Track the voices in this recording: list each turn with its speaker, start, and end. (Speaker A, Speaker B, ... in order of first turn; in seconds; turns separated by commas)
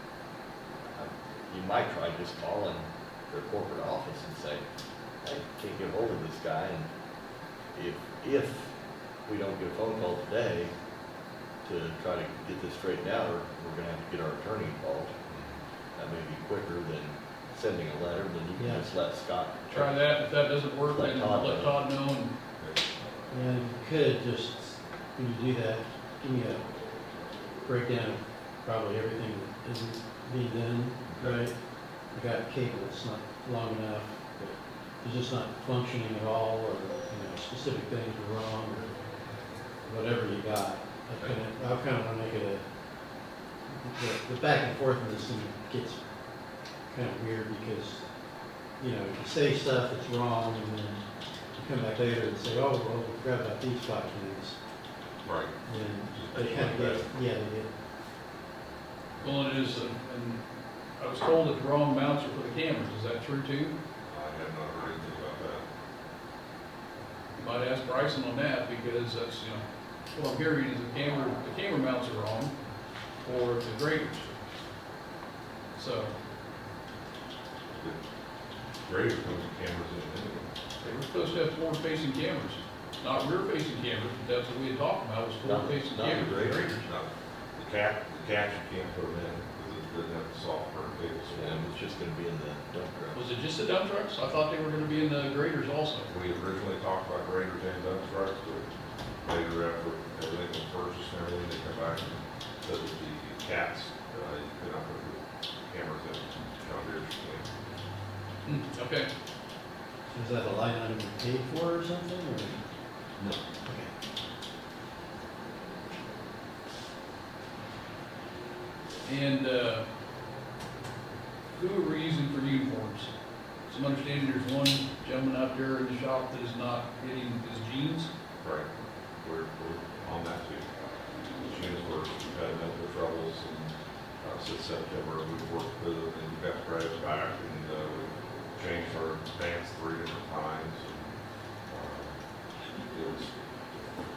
Speaker A: 0.8-4.6, Speaker A: 5.2-6.9, Speaker A: 7.7-8.7, Speaker A: 9.3-10.7, Speaker A: 11.6-15.2, Speaker B: 15.3-15.6, Speaker A: 16.0-19.9, Speaker C: 18.6-18.9, Speaker D: 19.7-22.3, Speaker A: 20.9-21.8, Speaker C: 23.3-26.7, Speaker C: 27.6-31.6, Speaker B: 31.1-31.4, Speaker C: 32.1-39.0, Speaker C: 39.9-42.7, Speaker C: 43.7-46.0, Speaker C: 46.9-48.1, Speaker C: 48.7-54.6, Speaker B: 55.2-55.6, Speaker C: 55.7-57.7, Speaker B: 56.1-57.1, Speaker D: 59.2-60.4, Speaker D: 61.0-63.8, Speaker B: 64.1-65.7, Speaker D: 67.4-72.5, Speaker D: 73.2-74.3, Speaker D: 75.7-76.2, Speaker B: 77.7-78.0, Speaker B: 78.9-80.5, Speaker D: 80.8-86.8, Speaker A: 85.4-86.3, Speaker B: 86.2-91.8, Speaker A: 91.3-93.2, Speaker D: 93.1-96.1, Speaker B: 96.1-98.7, Speaker B: 99.2-107.5, Speaker D: 108.5-109.1, Speaker C: 110.1-112.6, Speaker C: 113.7-113.9, Speaker D: 119.0-119.8, Speaker D: 121.5-123.1, Speaker D: 123.7-128.1, Speaker B: 128.4-128.7, Speaker B: 129.2-130.7, Speaker B: 131.4-141.2, Speaker B: 141.7-142.2, Speaker B: 142.9-143.3